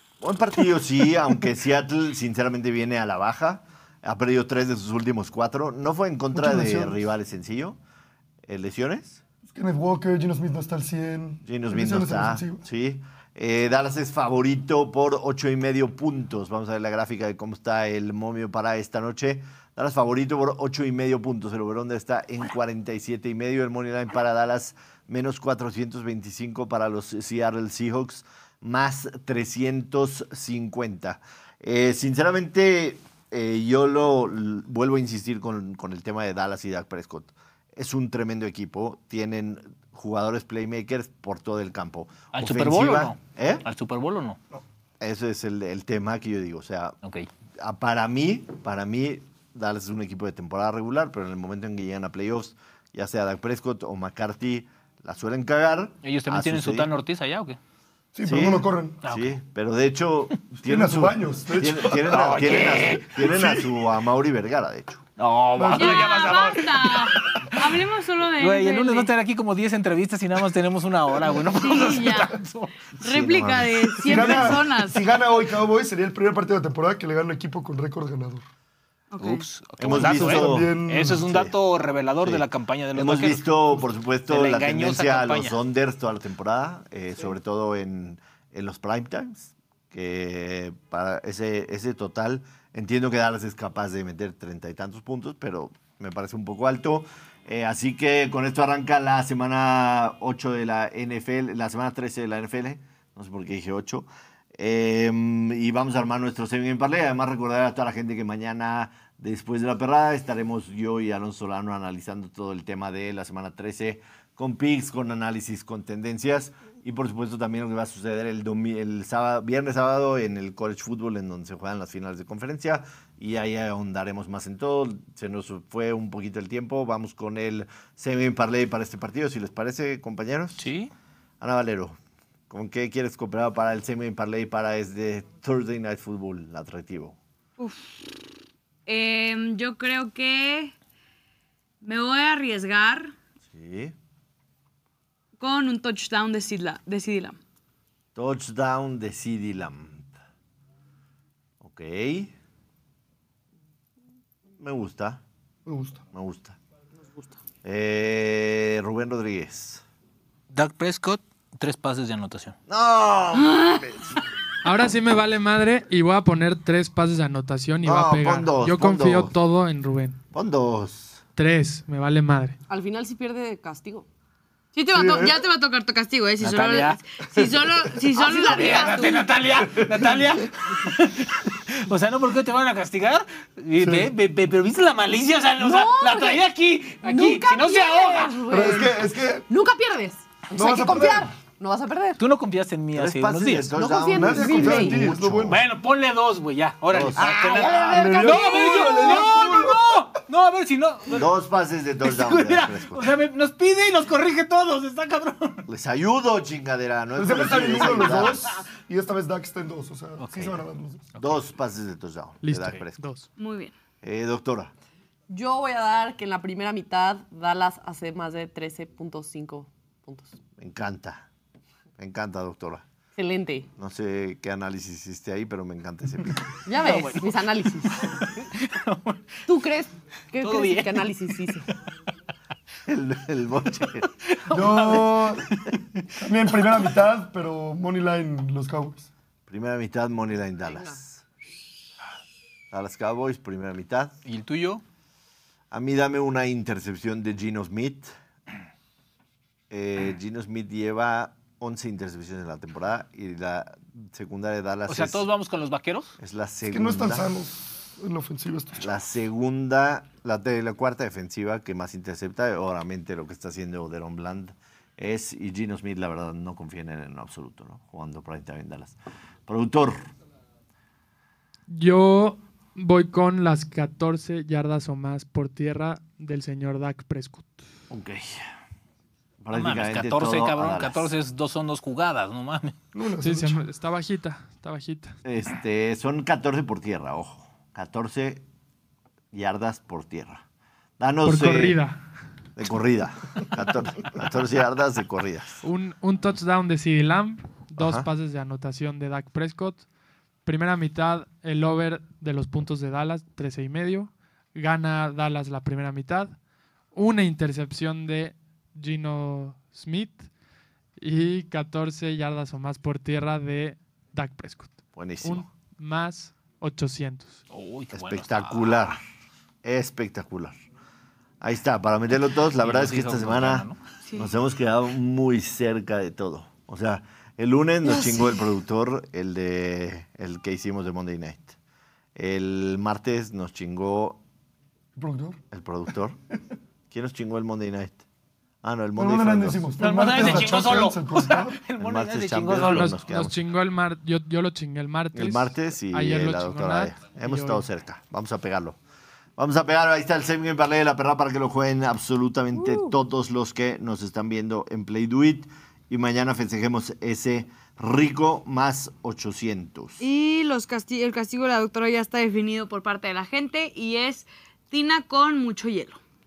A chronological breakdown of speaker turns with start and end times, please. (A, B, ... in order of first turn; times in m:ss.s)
0:00.2-0:07.8 A
0:06.3-0:07.0 B
0:08.4-0:09.2 A
0:09.4-0:12.6 B
0:11.4-0:43.6 A
0:42.3-0:44.4 C
0:45.0-0:47.0 A
0:47.6-0:56.9 A
0:56.0-0:57.6 C
0:58.1-0:59.0 B
0:58.2-1:05.1 A
0:59.0-0:59.4 C
1:00.7-1:02.6 B
1:02.1-1:03.6 C
1:05.2-1:07.8 C
1:05.6-1:06.4 B
1:05.7-1:09.1 D
1:08.4-1:12.7 C
1:11.5-1:12.4 D
1:13.0-1:14.4 A
1:13.0-1:15.0 D
1:14.0-1:18.4 B
1:19.1-1:19.4 D
1:19.2-1:23.8 C
1:19.8-1:20.7 A
1:19.9-1:21.2 B
1:21.2-1:21.6 A
1:22.2-2:10.7 A
1:24.3-1:25.6 C
2:10.6-2:10.9 C
2:11.4-2:12.0 A
2:12.5-2:17.2 A
2:17.6-2:18.0 D
2:18.9-2:20.7 D
2:21.8-2:23.1 D
2:23.5-2:24.0 A
2:25.4-2:27.4 D
2:28.1-2:30.1 A
2:31.6-2:32.3 A
2:34.6-2:35.2 A
2:35.7-2:36.0 B
2:36.1-2:36.6 A
2:37.6-2:39.8 A
2:40.5-2:42.6 C
2:42.7-2:44.2 A
2:43.4-2:43.8 D
2:44.6-2:50.2 E
2:47.8-2:49.4 A
2:50.3-2:51.2 A
2:51.4-2:52.6 E
2:52.7-2:54.1 F
2:54.7-2:59.2 D
2:54.9-2:55.4 B
2:56.4-2:57.4 C
2:58.1-2:59.3 F
2:58.3-3:08.4 C
3:03.8-3:04.1 B
3:05.6-3:06.4 F
3:07.0-3:12.2 F
3:08.5-3:09.4 B
3:10.5-3:11.3 B
3:12.2-3:13.7 C
3:13.0-3:15.6 A
3:13.7-3:15.0 F
3:14.1-3:15.6 B
3:15.5-3:21.3 C
3:16.9-3:18.0 A
3:17.1-3:19.6 F
3:17.9-3:20.0 B
3:21.1-3:23.1 A
3:22.0-3:25.7 C
3:25.7-3:28.5 A
3:27.2-3:31.1 B
3:30.2-3:30.6 C
3:31.1-3:31.4 C
3:31.2-3:33.0 A
3:32.4-3:33.3 E
3:33.4-3:33.7 D
3:34.0-3:34.7 A
3:35.3-3:40.4 F
3:40.6-3:41.3 A
3:42.0-3:42.8 A
3:43.2-3:43.7 F
3:43.8-3:46.4 A
3:46.7-3:48.1 F
3:46.8-3:49.4 C
3:49.5-3:51.7 F
3:50.4-3:51.4 C
3:52.9-3:54.1 A
3:53.9-3:56.0 C
3:54.5-3:55.5 B
3:56.2-3:59.1 B
3:59.5-4:01.2 A
4:00.7-4:01.0 F
4:02.7-4:04.1 A
4:04.2-4:04.8 C
4:05.7-4:08.1 A
4:09.7-4:15.2 A
4:14.9-4:16.1 C
4:16.2-4:17.3 A
4:16.7-4:18.9 B
4:18.8-4:30.0 A
4:31.7-4:37.6 E
4:37.9-4:38.5 A
4:39.4-4:41.1 A
4:39.5-4:42.8 C
4:42.9-4:43.7 B
4:43.2-4:45.2 E
4:45.2-4:48.4 A
4:49.3-4:50.4 A
4:51.0-4:51.8 A
4:51.3-4:52.0 E
4:52.6-4:55.6 A
4:55.6-4:59.8 E
4:57.8-4:58.1 A
5:00.4-5:06.4 E
5:06.9-5:10.2 E
5:11.0-5:17.4 E
5:15.0-5:15.5 A
5:17.5-5:19.0 C
5:17.9-5:19.0 A
5:19.6-5:20.6 A
5:21.4-5:31.6 A
5:22.6-5:23.8 C
5:24.0-5:24.3 D
5:32.2-5:34.2 A
5:35.0-5:35.4 B
5:35.5-5:36.2 A
5:36.9-5:38.0 A
5:38.6-5:40.4 A
5:39.0-5:41.6 B
5:39.8-5:43.0 C
5:41.8-5:43.4 A
5:42.6-5:47.6 E
5:45.1-5:48.8 A
5:49.4-6:00.0 A
6:00.0-6:06.0 D